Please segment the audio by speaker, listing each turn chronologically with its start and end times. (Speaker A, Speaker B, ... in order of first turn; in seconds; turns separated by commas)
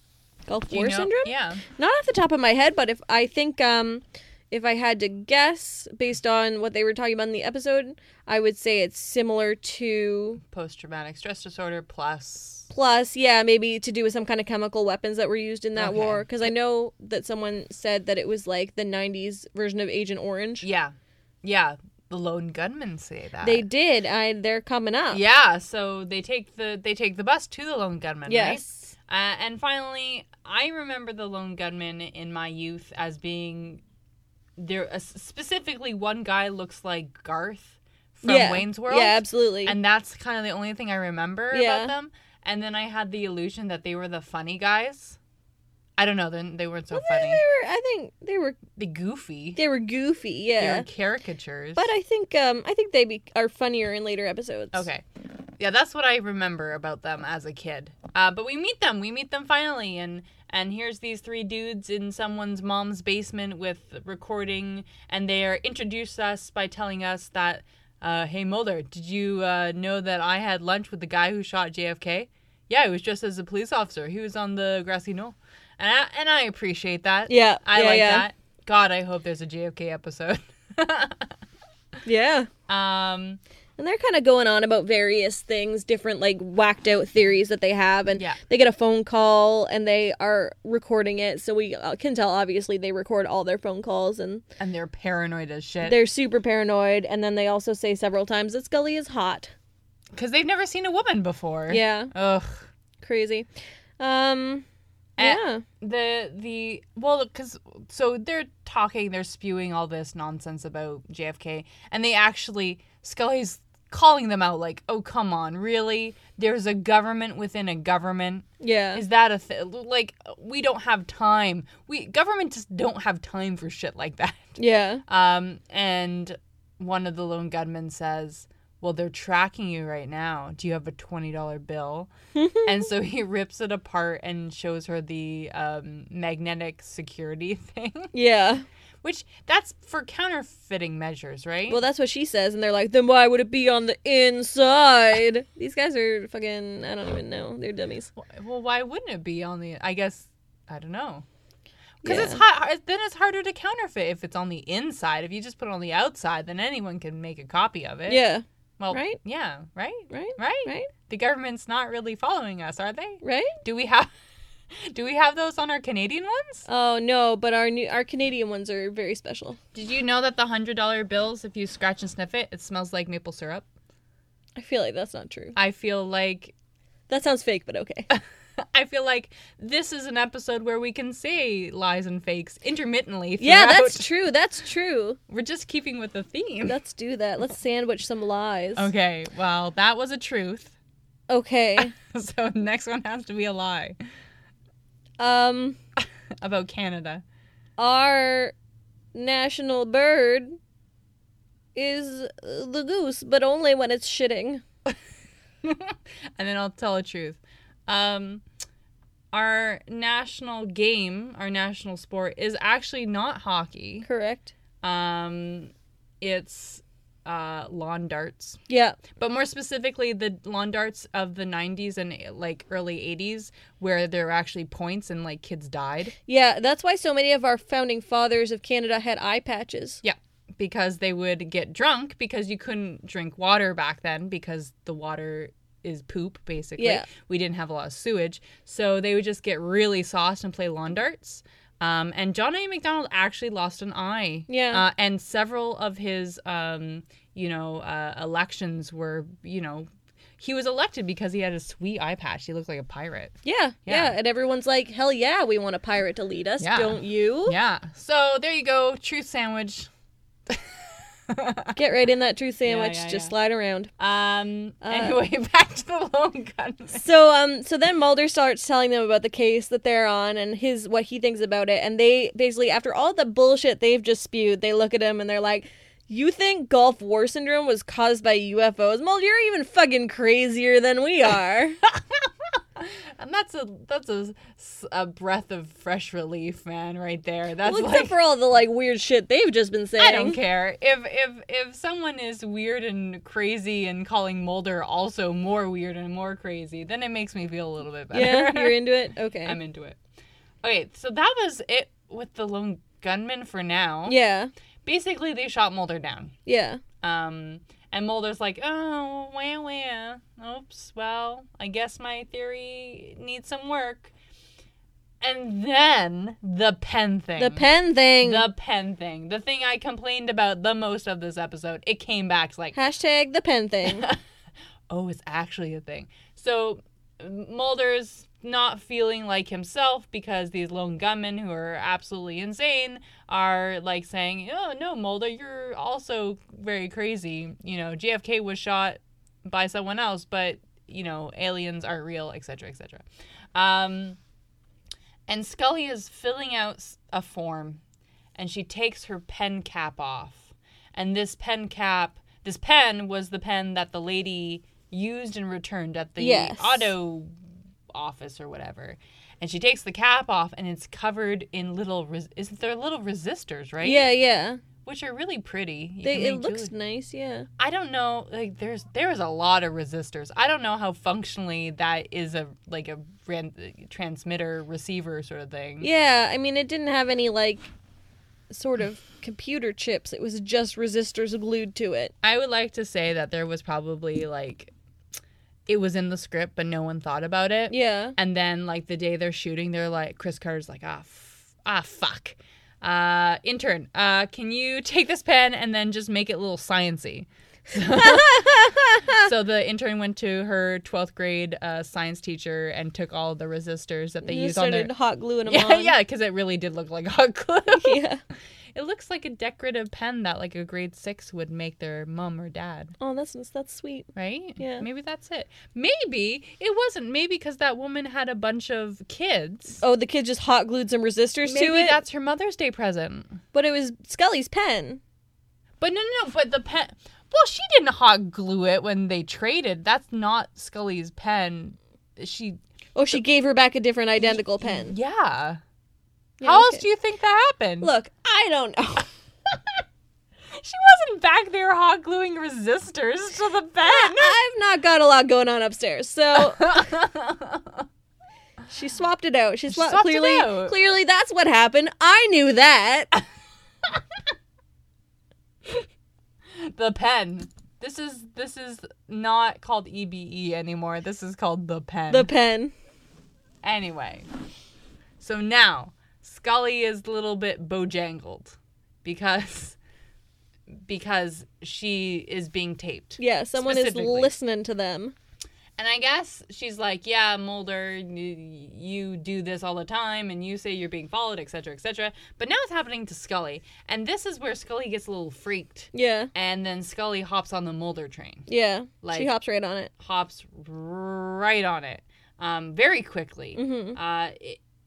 Speaker A: 0.5-10.4, Speaker B: 0.7-1.6, Speaker B: 10.4-12.7, Speaker A: 12.7-20.6, Speaker B: 15.8-16.4, Speaker B: 20.6-23.6, Speaker A: 23.4-25.2, Speaker B: 25.1-33.8, Speaker A: 28.3-28.9, Speaker B: 34.6-45.2, Speaker A: 38.2-39.7, Speaker A: 41.5-41.9, Speaker B: 46.0-47.4, Speaker A: 46.9-48.6, Speaker B: 48.8-49.6, Speaker A: 49.5-50.9, Speaker B: 50.6-51.9, Speaker A: 51.8-54.9, Speaker B: 54.7-55.0, Speaker B: 55.6-81.3, Speaker A: 77.3-78.2, Speaker A: 82.0-82.5, Speaker B: 82.7-83.4, Speaker A: 83.8-94.4, Speaker B: 94.6-96.0, Speaker A: 95.8-99.5, Speaker B: 100.1-102.7, Speaker A: 101.7-102.1, Speaker A: 103.0-103.5, Speaker A: 104.0-104.6, Speaker B: 105.2-124.5, Speaker A: 105.2-105.6, Speaker A: 118.6-119.0, Speaker A: 124.6-125.0, Speaker B: 125.1-132.1, Speaker A: 132.3-132.7, Speaker B: 132.6-138.1, Speaker A: 138.1-138.6, Speaker B: 139.0-141.8, Speaker A: 141.7-148.1, Speaker B: 148.2-151.2, Speaker B: 152.0-158.2, Speaker A: 152.0-152.4, Speaker A: 158.1-159.2, Speaker B: 158.8-164.1, Speaker A: 160.1-160.9, Speaker A: 163.2-163.5, Speaker B: 164.8-166.7, Speaker A: 166.7-169.6, Speaker B: 169.7-173.7, Speaker A: 174.6-175.6, Speaker B: 175.5-176.5, Speaker A: 177.1-178.1, Speaker B: 178.7-184.1, Speaker A: 183.4-185.2, Speaker B: 185.3-186.8, Speaker A: 186.7-188.9, Speaker B: 188.8-190.7, Speaker A: 191.3-191.9, Speaker B: 191.8-193.9, Speaker A: 195.2-195.8, Speaker B: 196.4-197.2, Speaker A: 197.8-198.5, Speaker A: 199.1-200.6, Speaker A: 201.7-204.6, Speaker B: 205.6-208.4, Speaker B: 209.3-214.1, Speaker A: 214.0-214.5, Speaker B: 214.8-218.6, Speaker A: 218.7-219.0, Speaker B: 219.2-226.1, Speaker A: 226.3-230.0, Speaker B: 230.0-254.1, Speaker A: 236.8-237.1, Speaker A: 244.5-244.8, Speaker A: 253.4-257.5, Speaker B: 256.6-259.9, Speaker B: 261.3-261.8, Speaker A: 261.8-263.9, Speaker B: 262.6-263.3, Speaker B: 264.0-267.0, Speaker A: 264.8-265.2, Speaker A: 266.9-281.8, Speaker B: 281.9-282.2, Speaker B: 282.8-288.1, Speaker A: 287.6-290.4, Speaker B: 290.0-298.8, Speaker A: 298.1-299.6, Speaker B: 299.4-300.0, Speaker B: 300.6-304.1, Speaker A: 304.1-304.5, Speaker B: 304.8-306.3, Speaker A: 306.4-306.8, Speaker B: 307.0-314.1, Speaker B: 315.2-317.7, Speaker A: 317.4-318.4, Speaker B: 318.2-322.8, Speaker A: 322.7-324.1, Speaker B: 323.9-324.2, Speaker B: 324.9-343.0, Speaker B: 343.5-344.2, Speaker B: 345.3-347.8, Speaker B: 348.4-357.3, Speaker A: 356.2-356.9, Speaker B: 357.9-364.1, Speaker A: 363.8-364.6, Speaker B: 364.8-366.7, Speaker A: 366.0-367.5, Speaker B: 367.6-375.9, Speaker A: 375.8-377.7, Speaker A: 378.5-382.1, Speaker B: 382.2-384.7, Speaker B: 385.7-404.9, Speaker A: 387.7-388.1, Speaker A: 397.9-399.2, Speaker A: 404.2-405.9, Speaker B: 405.4-408.0, Speaker A: 407.7-408.2, Speaker B: 408.7-412.9, Speaker A: 413.0-414.9, Speaker B: 414.1-419.8, Speaker A: 419.8-422.0, Speaker B: 421.4-423.4, Speaker A: 423.5-425.0, Speaker B: 425.8-432.6, Speaker A: 432.9-434.9, Speaker B: 434.2-435.6, Speaker A: 436.4-436.8, Speaker B: 436.4-437.9, Speaker A: 437.8-439.1, Speaker B: 440.5-444.4, Speaker A: 443.8-446.7, Speaker B: 446.4-447.8, Speaker A: 448.7-453.1, Speaker B: 449.7-450.8, Speaker B: 456.6-462.3, Speaker A: 462.1-462.7, Speaker B: 463.6-464.3, Speaker B: 465.2-469.8, Speaker B: 470.9-474.3, Speaker A: 473.2-475.1, Speaker B: 475.8-488.5, Speaker A: 485.9-486.3, Speaker A: 488.5-489.9, Speaker B: 489.0-489.3, Speaker B: 490.0-494.6, Speaker A: 493.6-494.0